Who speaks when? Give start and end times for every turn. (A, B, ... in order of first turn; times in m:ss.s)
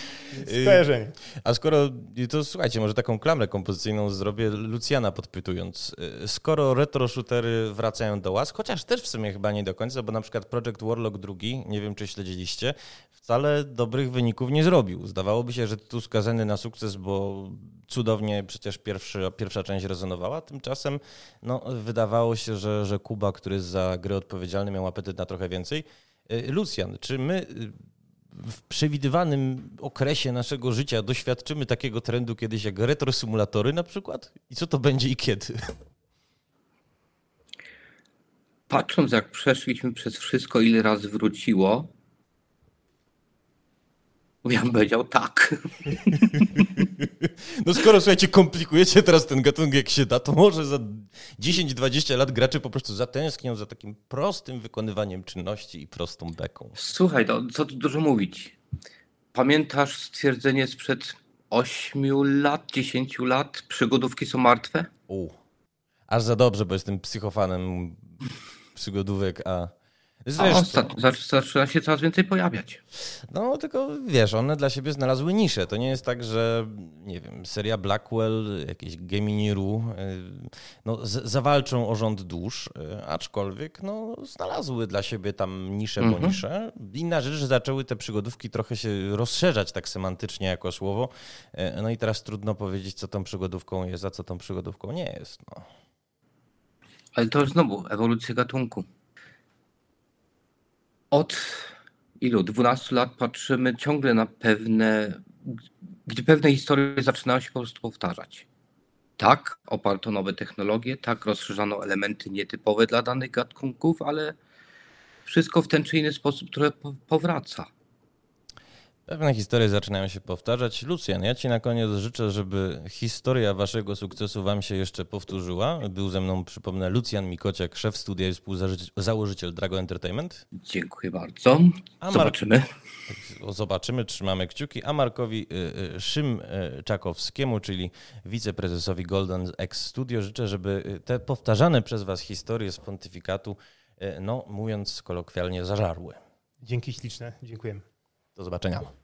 0:00.3-0:01.2 A
0:00.4-0:00.8 B
0:01.4-0:27.8 B
0:28.3-0:35.8 B
0:38.7-0:41.9 C
0:44.4-0:46.6 C
0:46.5-0:56.8 B
0:56.8-0:58.6 C
0:59.3-1:04.9 C
1:05.1-1:05.3 B
1:06.1-1:08.2 B
1:08.7-1:10.9 B
1:10.4-1:12.8 C
1:13.3-1:35.7 B
1:26.0-1:26.4 C
1:37.1-1:38.9 C
1:41.1-1:48.4 C
1:49.2-1:54.3 C
1:55.2-1:57.7 C
1:59.1-2:10.4 B
2:10.5-2:12.7 C
2:12.0-2:12.3 B
2:13.1-2:26.2 B
2:26.6-2:27.8 A
2:28.4-2:28.9 B